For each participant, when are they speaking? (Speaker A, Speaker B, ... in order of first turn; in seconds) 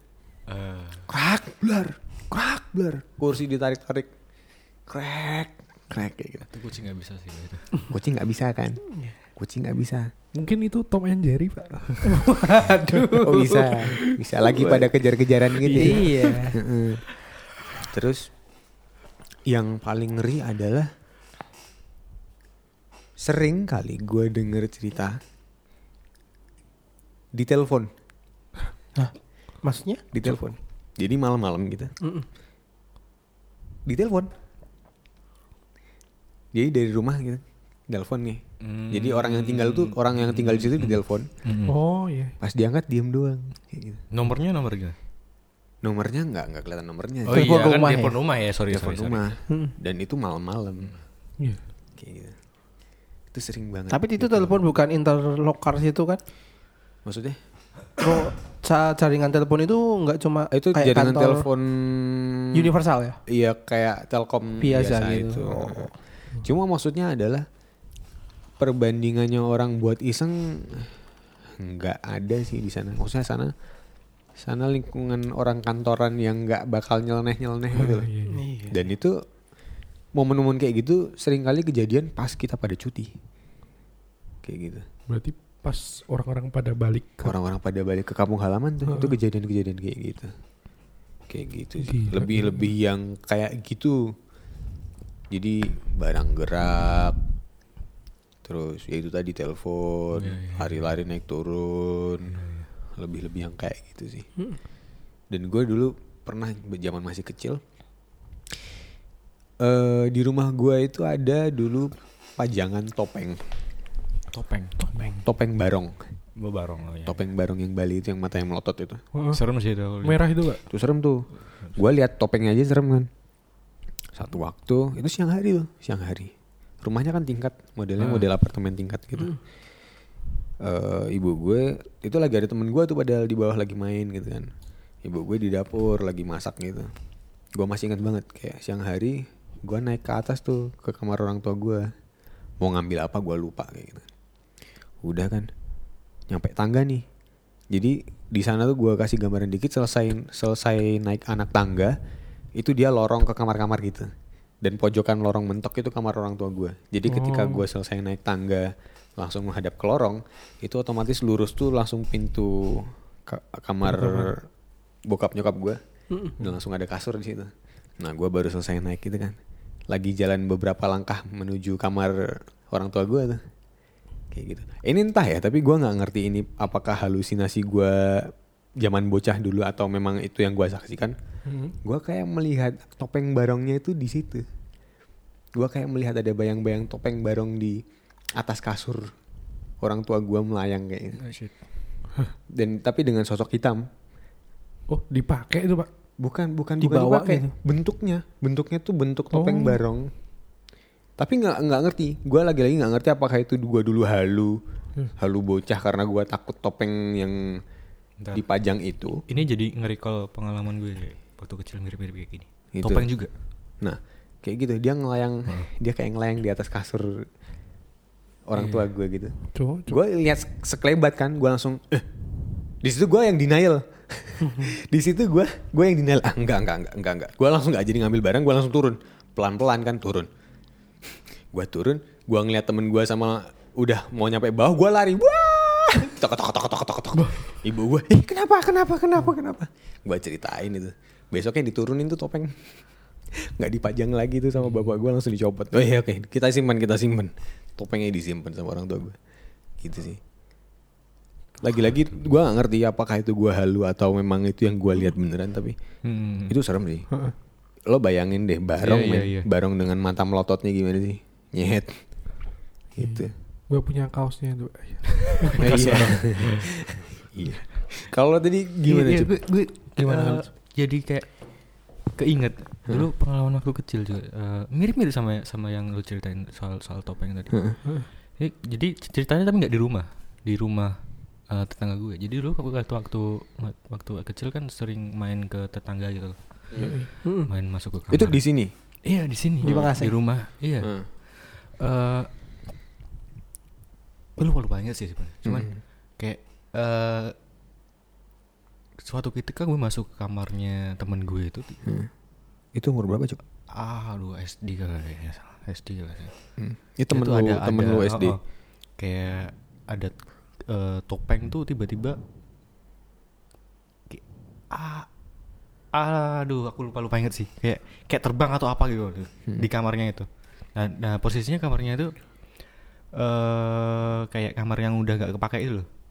Speaker A: 0.5-1.1, 6.5-7.7, 38.6-41.8, 44.1-44.9, 47.3-49.3, 100.1-100.9, 102.3-102.7, 114.3-115.2, 116.4-117.2, 119.3-120.3, 128.0-128.3, 191.2-191.6, 208.2-208.4, 209.3-213.3, 218.6-218.8, 256.0-256.6, 258.8-259.5, 265.5-266.6, 270.0-288.4, 289.0-292.3, 294.4-297.3, 299.0-301.9, 303.7-306.3, 307.1-312.2, 314.1-315.1, 315.9-325.9
Speaker B: 1.1-4.1, 4.9-6.5, 7.9-8.8, 9.3-10.1, 13.2-17.0, 17.8-18.3, 19.5-20.9, 23.2-25.2, 27.3-27.9, 30.1-31.9, 33.9-34.3, 36.5-41.3, 42.4-44.0, 45.8-48.1, 48.7-50.9, 52.0-52.4, 53.3-54.6, 57.0-57.4, 60.5-62.7, 63.3-67.4, 68.6-70.9, 71.5-73.5, 74.4-78.1, 78.7-79.2, 80.1-83.1, 84.4-84.8, 87.2-90.3, 91.3-94.1, 95.3-97.2, 98.4-102.3, 102.9-104.3, 105.3-107.6, 109.6-113.4, 115.2-116.0, 117.0-119.0, 120.7-123.1, 124.1-129.4, 130.6-134.5, 135.0-136.9, 137.5-141.9, 142.6-144.1, 145.0-145.5, 146.3-147.0, 147.7-151.9, 152.6-154.1, 154.6-164.4, 165.1-165.8, 166.4-169.4, 169.9-173.4, 174.3-181.1, 181.8-184.4, 185.5-187.8, 188.3-189.1, 189.8-191.2, 192.5-193.8, 196.2-200.1, 201.2-204.6, 205.2-207.6, 208.3-209.2, 212.7-213.1, 213.8-217.2, 218.4-219.3, 219.8-222.1, 222.6-230.3, 231.5-242.8, 243.4-249.2, 249.8-250.2, 251.6-255.8, 256.4-257.1, 257.8-263.3, 265.6-269.4, 288.1-288.7, 295.4-295.8, 301.9-302.1, 302.7-303.4, 306.6-308.4
Speaker C: 10.3-12.2, 15.6-16.4, 41.6-42.4, 77.7-78.4, 85.1-87.3, 88.9-89.1, 91.8-92.5, 119.1-119.4, 120.0-120.6, 157.1-157.6, 163.9-164.3, 181.4-181.7, 194.9-195.9, 199.3-199.8, 219.5-220.0, 263.0-265.6, 286.8-287.1
Speaker D: 12.0-14.8, 15.7-16.6, 29.0-30.0, 32.0-32.3, 47.3-48.1, 53.9-56.2, 58.0-61.5, 62.5-63.2, 64.6-65.9, 78.3-78.8, 196.8-197.5, 268.9-270.4, 287.2-287.5, 289.6-290.1